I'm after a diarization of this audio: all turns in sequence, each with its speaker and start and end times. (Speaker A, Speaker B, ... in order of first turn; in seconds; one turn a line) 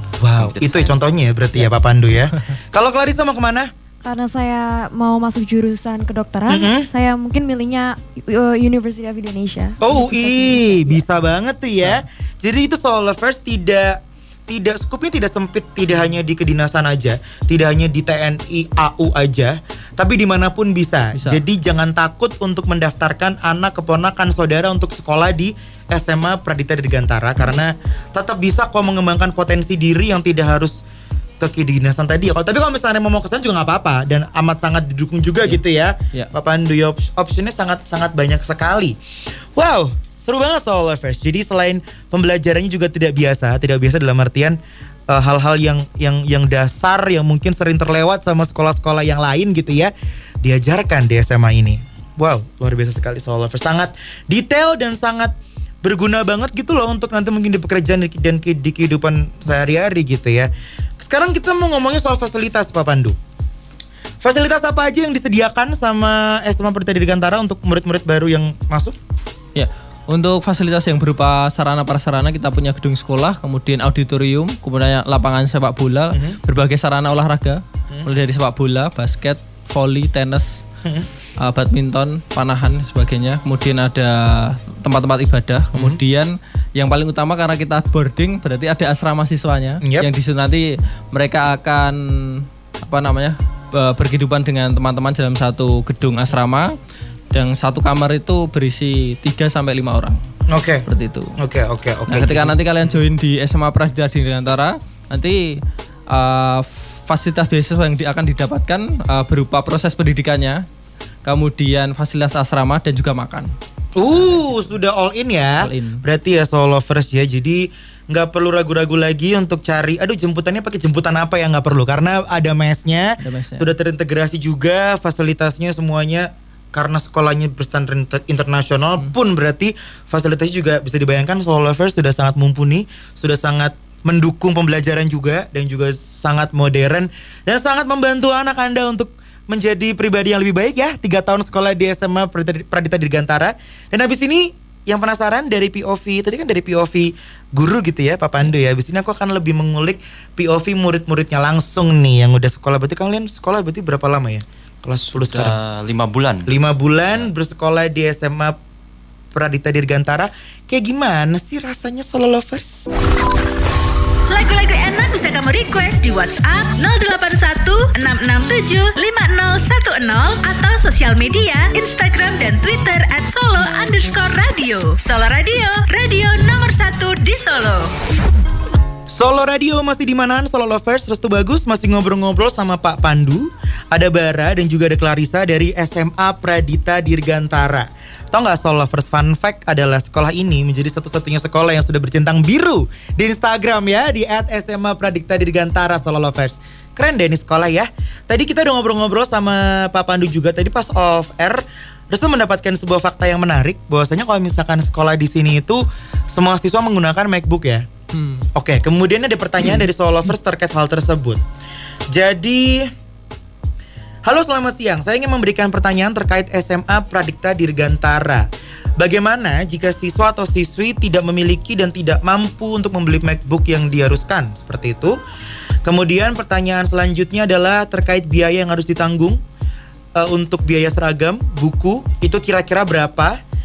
Speaker A: 0.1-3.7
Speaker B: 0.4-1.0
Speaker C: 4.0-11.0
Speaker A: 6.5-6.9
Speaker A: 9.8-30.8
Speaker D: 21.1-21.4
Speaker A: 31.4-39.0
Speaker A: 39.5-44.6
Speaker A: 45.1-63.2
Speaker A: 64.2-69.0
Speaker D: 69.6-80.6
Speaker A: 76.1-76.4
Speaker D: 81.4-96.7
Speaker A: 85.7-86.0
Speaker A: 89.8-90.1
Speaker D: 97.3-100.2
Speaker A: 100.5-103.0
Speaker D: 100.9-101.4
Speaker D: 102.1-110.6
Speaker D: 111.2-113.5
Speaker A: 114.0-155.6
Speaker D: 114.1-114.5
Speaker D: 115.6-116.0
Speaker D: 123.2-123.7
Speaker B: 155.0-156.5
Speaker A: 156.5-158.6
Speaker A: 159.3-162.8
Speaker E: 164.3-177.9
Speaker A: 179.1-207.9
Speaker D: 208.1-208.5
Speaker A: 208.6-211.4
Speaker A: 212.1-212.9
Speaker A: 214.2-225.2
Speaker A: 225.8-229.4
Speaker A: 230.2-233.4